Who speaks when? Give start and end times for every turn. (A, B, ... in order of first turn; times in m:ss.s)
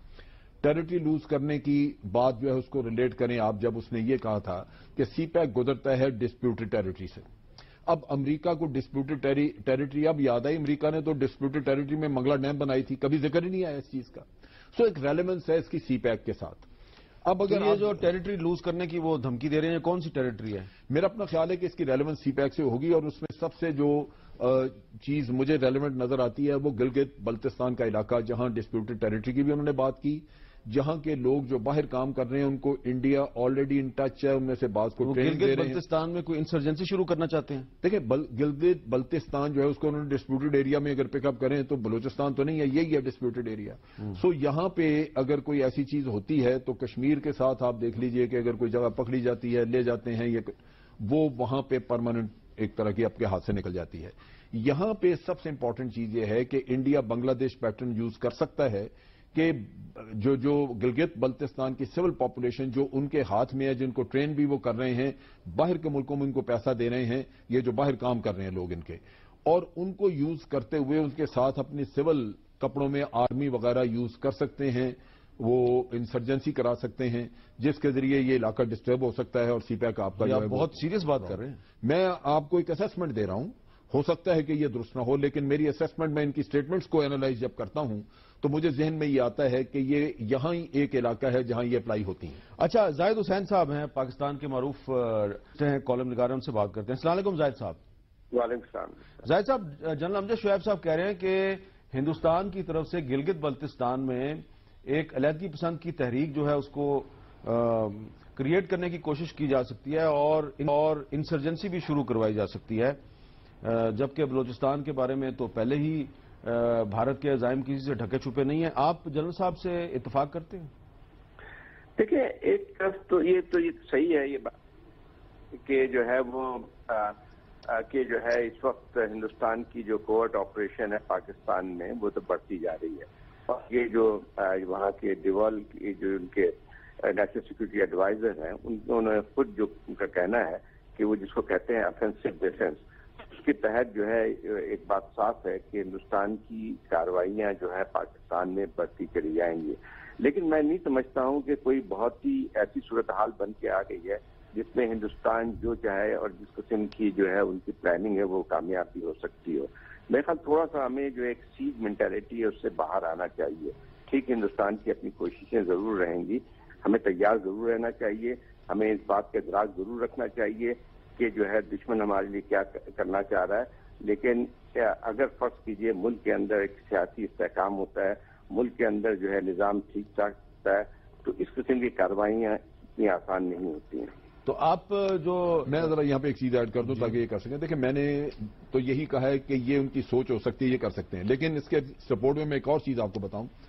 0:00.6-0:07.2 A
0:07.8-0:16.6 A
0:17.2-0:18.0 A
0:17.4-0:20.7 B
0:20.9-0:35.8 A
0:35.0-0:37.7 B
0:37.8-1:20.8 A
1:20.2-1:21.6 B
1:21.3-1:32.4 A
1:32.6-1:37.8 B
1:38.3-1:39.0 C
1:39.2-1:53.0 B
1:53.6-2:00.7 B
2:02.0-2:04.5 C
2:05.6-2:07.2 C
2:07.7-3:04.1 C
3:04.4-3:05.9 B
3:05.7-3:13.5 A